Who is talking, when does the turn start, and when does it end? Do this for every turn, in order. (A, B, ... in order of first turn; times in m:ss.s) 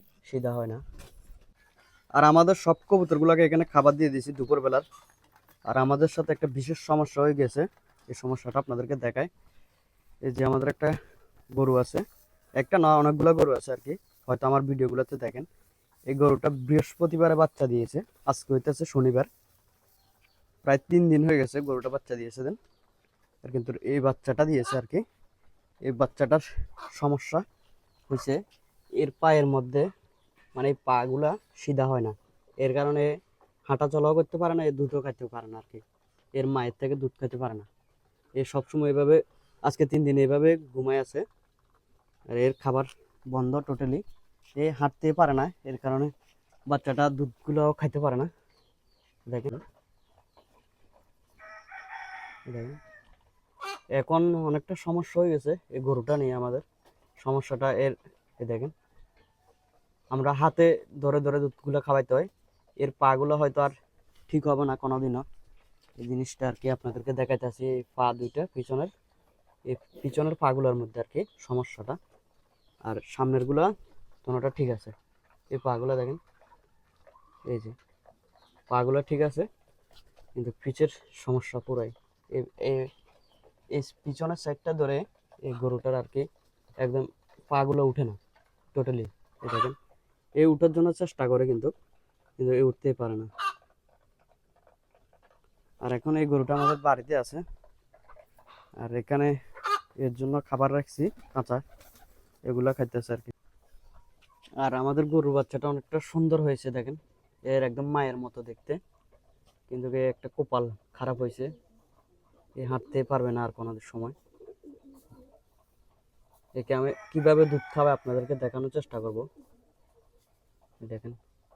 0:00.2-0:00.8 A
0:02.2-0:04.8 A
0:05.7-0:09.3 A
0:10.3-0:10.9 A
0:11.5-0:12.0 A
0:12.6-0:15.5 A
0:16.1-0:19.3 A
0:20.6-0:22.6 A
0:23.4-0:25.0 A
0:25.9-0:27.4 A
0:28.1-0:28.4 A
0:29.0-0:29.9 A
0:30.6-0:33.1 A
0:33.7-0:35.8 A
0:36.4-0:37.7 A
0:38.4-0:41.2 A
0:42.3-0:44.0 A
0:44.6-0:46.1 A
0:46.7-0:48.3 A
0:49.3-0:49.6 A
0:52.5-0:52.8 A
0:54.0-0:56.6 A
0:57.2-0:58.7 A
1:00.1-1:02.3 A
1:02.8-1:03.7 A
1:04.3-1:05.2 A
1:06.0-1:08.9 A
1:09.7-1:12.0 A
1:12.9-1:13.7 A
1:14.2-1:14.9 A
1:15.5-1:16.2 A
1:17.5-1:17.8 A
1:18.7-1:19.5 A
1:20.4-1:22.9 A
1:23.7-1:26.3 A
1:26.8-1:28.2 A
1:28.7-1:29.8 A
1:30.4-1:31.7 A
1:32.4-1:33.3 A
1:35.8-1:37.4 A
1:38.8-1:39.3 A
1:40.0-1:41.6 A
1:42.5-1:43.3 A
1:44.6-1:48.8 A
1:49.7-1:51.5 A
1:52.6-1:54.2 A
1:56.6-1:59.3 A
2:00.8-2:01.2 A